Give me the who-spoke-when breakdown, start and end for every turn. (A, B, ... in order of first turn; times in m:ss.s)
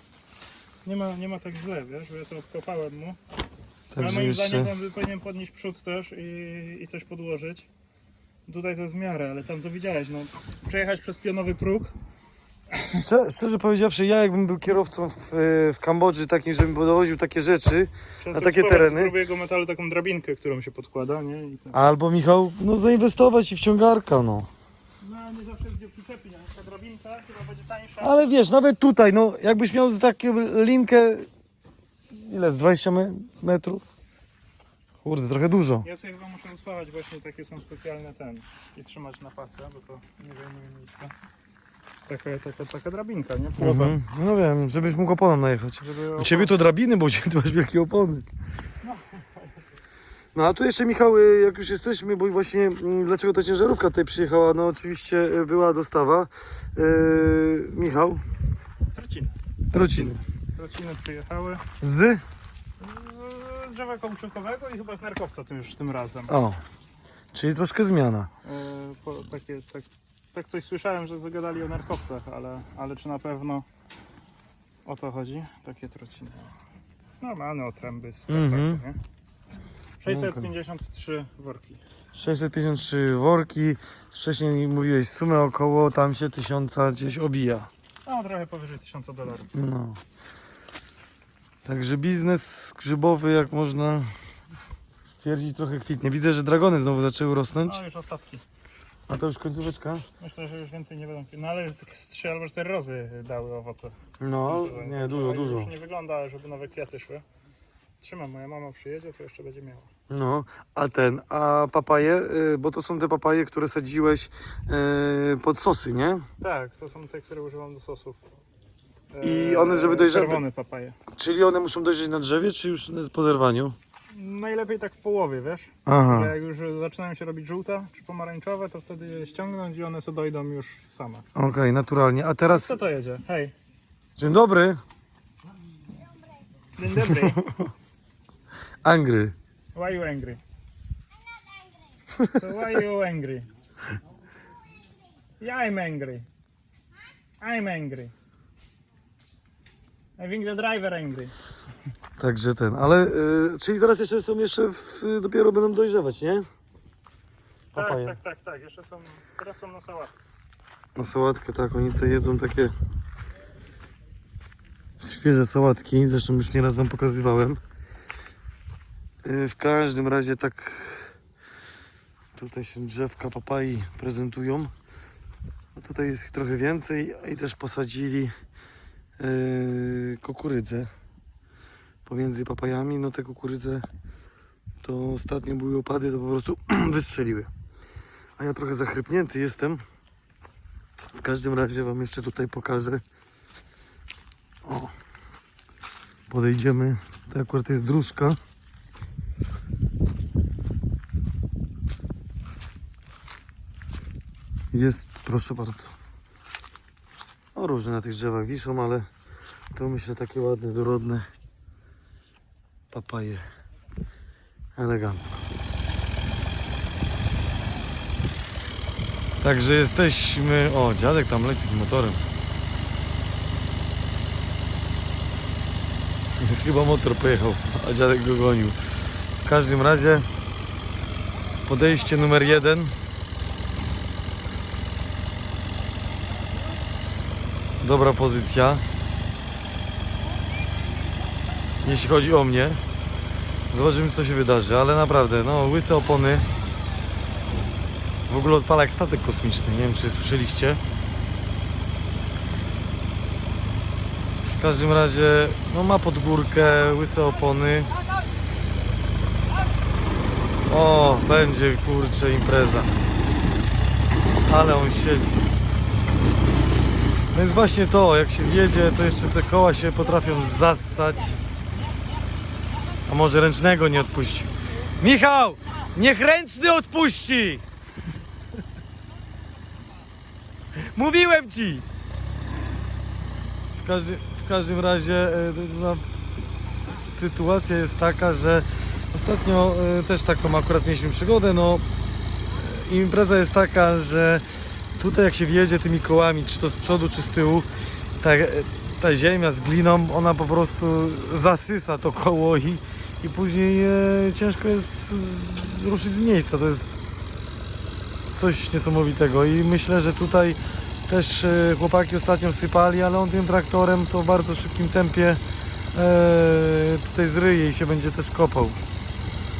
0:00.8-0:03.2 A
0:03.9-0:04.7 B
0:03.9-0:07.7 A
0:08.4-0:11.9 A
0:12.7-0:19.1 B
0:18.2-0:21.8 A
0:21.7-0:24.5 B
0:25.0-0:28.2 A
0:28.0-0:31.3 B
0:32.1-0:33.8 B
0:35.0-0:35.8 B
0:35.8-0:41.1 A
0:42.0-0:44.0 A
0:43.6-0:48.2 B
0:45.8-0:46.6 A
0:48.8-0:49.5 A
0:50.3-0:58.2 B
0:58.9-0:59.4 A
0:59.7-1:00.2 B
1:00.5-1:01.6 A
1:01.8-1:02.2 B
1:02.8-1:06.4 A
1:06.3-1:06.6 B
1:07.3-1:08.3 B
1:08.4-1:13.6 A
1:14.8-1:16.5 A
1:17.2-1:19.0 A
1:18.3-1:18.8 B
1:20.0-1:21.8 A
1:20.1-1:20.5 B
1:22.1-1:27.7 B
1:28.0-1:29.5 A
1:29.5-1:30.0 B
1:31.6-1:34.1 B
1:35.2-1:37.8 B
1:37.6-1:38.4 A
1:39.1-1:40.0 B
1:40.2-1:47.2 A
1:44.2-1:45.7 B
1:48.0-1:49.9 A
1:50.1-1:56.2 B
1:56.4-1:58.2 A
1:59.1-2:01.0 A
1:59.2-2:00.4 B
2:01.1-2:03.8 B
2:04.1-2:11.2 A
2:05.8-2:06.3 B
2:11.3-2:12.8 B
2:12.5-2:13.5 A
2:14.2-2:14.8 B
2:16.7-2:17.4 A
2:17.0-2:17.6 B
2:18.8-2:19.3 B
2:19.7-2:20.4 A
2:22.4-2:23.5 A
2:25.4-2:26.2 A
2:27.4-2:28.1 A
2:30.2-2:31.3 A
2:32.2-2:36.4 B
2:37.7-2:38.2 B
2:37.7-2:40.1 A
2:41.0-2:42.7 B
2:45.0-2:47.6 B
2:49.2-2:51.1 B
2:52.4-2:54.7 B
2:55.8-2:58.3 B
2:59.2-3:00.9 B
3:02.0-3:03.8 B
3:04.8-3:07.5 B
3:08.4-3:09.8 B
3:11.1-3:13.0 B
3:14.6-3:14.9 B
3:16.3-3:18.4 B
3:24.7-3:25.9 B
3:27.5-3:29.0 B
3:29.7-3:31.2 B
3:32.9-3:33.4 B
3:34.8-3:35.4 B
3:39.4-3:42.2 B
3:46.4-3:48.8 B
3:49.4-3:50.3 B
3:51.7-3:52.9 B
3:57.8-3:58.8 B
4:01.8-4:02.8 B
4:03.7-4:06.4 B
4:08.3-4:10.8 B
4:14.4-4:17.9 B
4:20.7-4:22.9 B
4:24.5-4:25.4 B
4:27.3-4:31.4 B
4:33.1-4:37.6 B
4:40.9-4:41.8 B
4:43.7-4:46.0 B
4:46.8-4:51.8 B
4:52.5-4:54.4 B
4:55.0-4:57.7 B
4:58.2-5:07.0 B
5:08.3-5:15.4 B
5:15.9-5:18.8 B